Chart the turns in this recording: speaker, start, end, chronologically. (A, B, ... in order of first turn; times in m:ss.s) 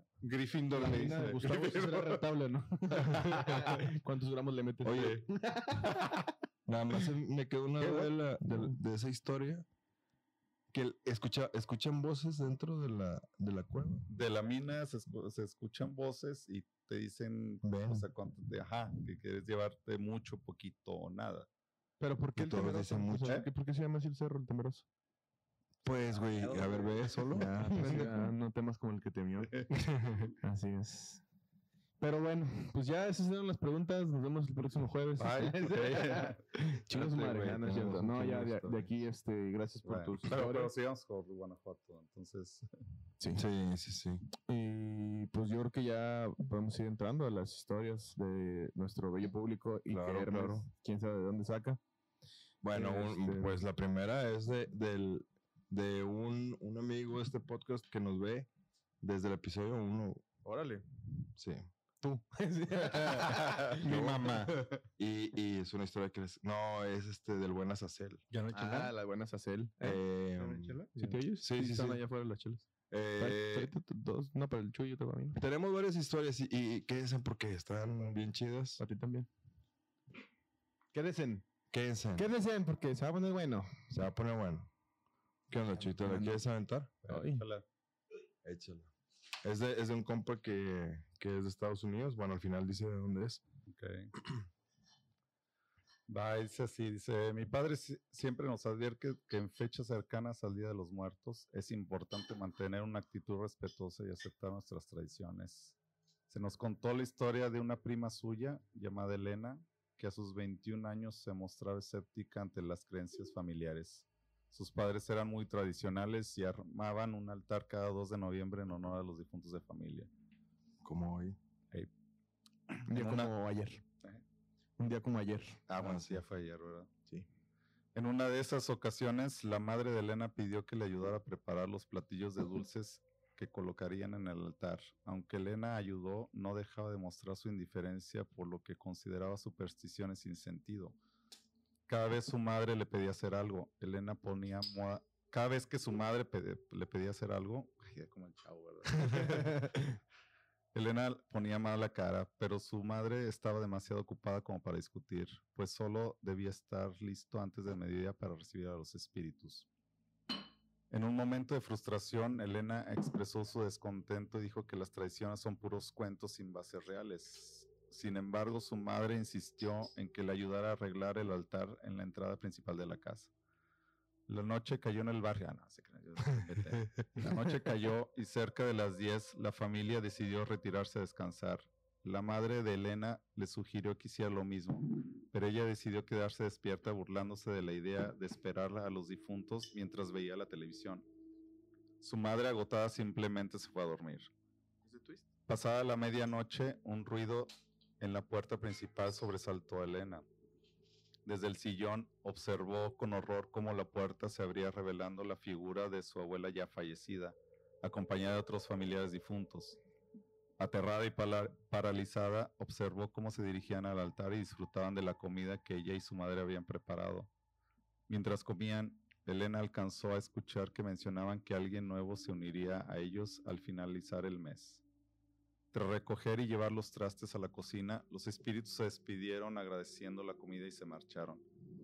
0:00.2-0:01.5 A
0:00.7-0:06.3 B
0:01.2-0:02.3 C
0:03.0-0:03.7 C
0:04.8-0:05.2 D
0:06.7-0:09.6 D
0:07.8-0:08.7 B
0:10.7-0:14.1 D
0:14.1-0:21.5 C
0:17.6-0:18.1 D
0:22.0-0:24.8 B
0:22.4-0:23.4 D
0:25.8-0:28.3 D
0:26.3-0:27.2 C
0:27.3-0:29.8 B
0:29.7-0:30.3 D
0:30.4-0:31.2 B
0:32.0-0:40.7 B
0:35.2-0:36.4 C
0:36.9-0:38.9 D
0:39.8-0:42.7 C
0:43.2-0:43.4 B
0:43.3-0:44.2 D
0:44.4-0:51.8 B
0:49.9-0:50.6 D
0:52.6-0:58.5 D
0:52.7-0:53.6 B
0:59.0-1:00.2 D
1:00.4-1:00.8 B
1:01.4-1:01.7 D
1:02.0-1:03.9 B
1:03.1-1:04.6 A
1:03.8-1:04.4 D
1:05.0-1:08.2 D
1:08.3-1:08.9 A
1:08.5-1:10.0 B
1:09.8-1:10.8 D
1:10.4-1:11.2 A
1:11.0-1:15.4 B
1:11.3-1:12.0 D
1:12.9-1:13.7 D
1:15.3-1:18.8 D
1:18.8-1:19.3 B
1:20.9-1:21.4 B
1:21.7-1:22.3 D
1:22.2-1:23.8 B
1:23.9-1:24.7 D
1:25.5-1:26.9 D
1:25.8-1:26.4 B
1:27.0-1:27.5 B
1:27.0-1:27.6 C
1:28.4-1:28.9 D
1:29.4-1:33.4 D
1:33.7-1:34.1 C
1:36.1-1:45.8 C
1:46.3-2:00.1 C
2:00.8-2:01.4 D
2:02.7-2:03.3 C
2:02.9-2:03.8 B
2:04.8-2:05.6 B
2:05.7-2:06.9 C
2:05.8-2:06.2 D
2:08.0-2:21.0 C
2:21.9-2:29.8 C
2:29.2-2:29.5 B
2:30.7-2:39.7 C
2:40.9-2:53.3 C
2:54.3-3:11.0 C
3:12.0-3:14.3 C
3:14.8-3:15.2 B
3:15.5-3:20.2 C
3:21.2-3:29.8 C
3:30.6-3:37.3 C
3:38.1-3:44.8 C
3:45.7-3:51.4 C